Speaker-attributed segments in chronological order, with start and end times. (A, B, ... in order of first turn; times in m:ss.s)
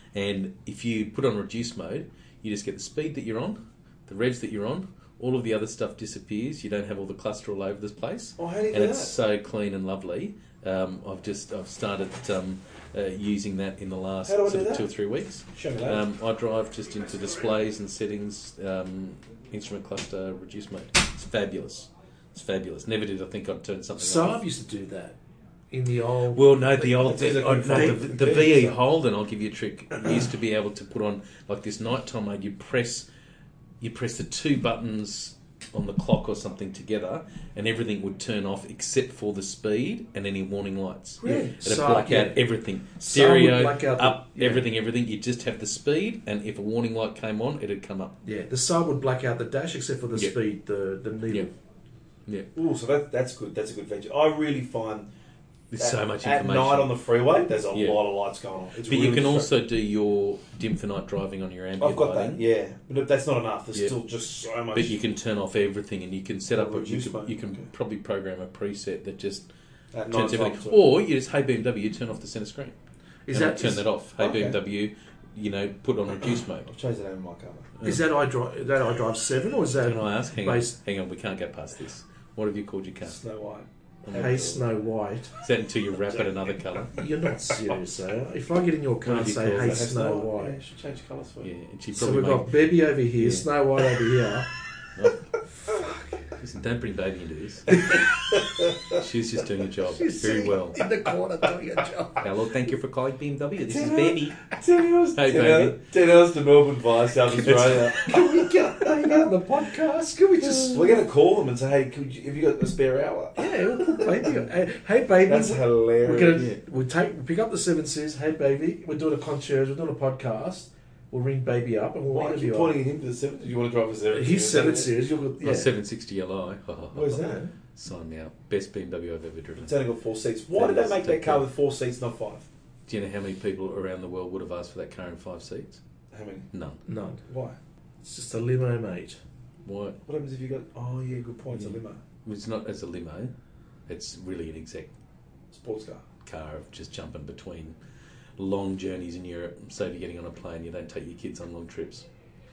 0:00.1-0:24.4 A
0:08.4-0:09.1 B
0:14.2-0:14.9 B
0:15.5-0:16.0 B
0:24.0-0:25.2 C
0:25.7-0:28.0 C
0:26.3-0:33.1 A
0:27.0-0:28.8 B
0:33.8-0:48.1 A
0:41.2-0:42.4 C
0:41.2-0:41.5 B
0:43.0-0:44.6 C
0:48.2-0:51.5 C
0:52.5-0:55.1 B
0:55.7-0:57.0 A
0:55.8-0:59.5 B
0:57.7-0:58.0 A
0:58.8-1:02.4 A
1:01.8-1:05.0 B
1:04.7-1:09.5 A
1:06.5-1:07.6 B
1:09.9-1:10.8 B
1:10.1-1:12.7 A
1:13.3-1:13.8 C
1:13.3-1:16.7 A
1:14.2-1:14.6 B
1:16.6-1:17.7 B
1:17.8-1:20.8 C
1:19.8-1:23.2 A
1:23.0-1:24.6 B
1:24.0-1:24.5 A
1:24.1-1:25.3 C
1:25.4-1:26.9 A
1:26.1-1:26.4 B
1:26.9-1:30.6 C
1:29.0-1:29.9 A
1:29.5-1:31.5 B
1:31.4-1:33.5 A
1:31.9-1:34.5 C
1:36.4-1:37.8 A
1:38.9-1:40.8 A
1:39.9-1:42.3 C
1:42.2-1:44.4 A
1:43.7-1:49.2 B
1:45.1-1:45.8 A
1:47.3-1:51.0 C
1:47.4-1:48.1 A
1:50.4-1:50.7 A
1:50.7-1:54.4 B
1:53.4-2:02.8 C
1:55.2-1:56.5 B
1:56.3-1:56.6 A
2:02.1-2:05.0 B
2:04.1-2:05.7 C
2:05.4-2:09.7 A
2:06.9-2:07.4 B
2:07.2-2:07.5 C
2:09.6-2:12.5 B
2:10.5-2:11.4 A
2:12.9-2:15.8 A
2:16.1-2:16.5 B
2:16.5-2:16.8 A
2:16.8-2:17.2 C
2:17.2-2:17.6 B
2:18.0-2:19.2 C
2:19.6-2:20.0 A
2:20.0-2:22.0 B
2:22.2-2:23.3 A
2:23.9-2:24.9 A
2:25.5-2:26.0 B
2:26.2-2:27.8 A
2:28.4-2:32.0 A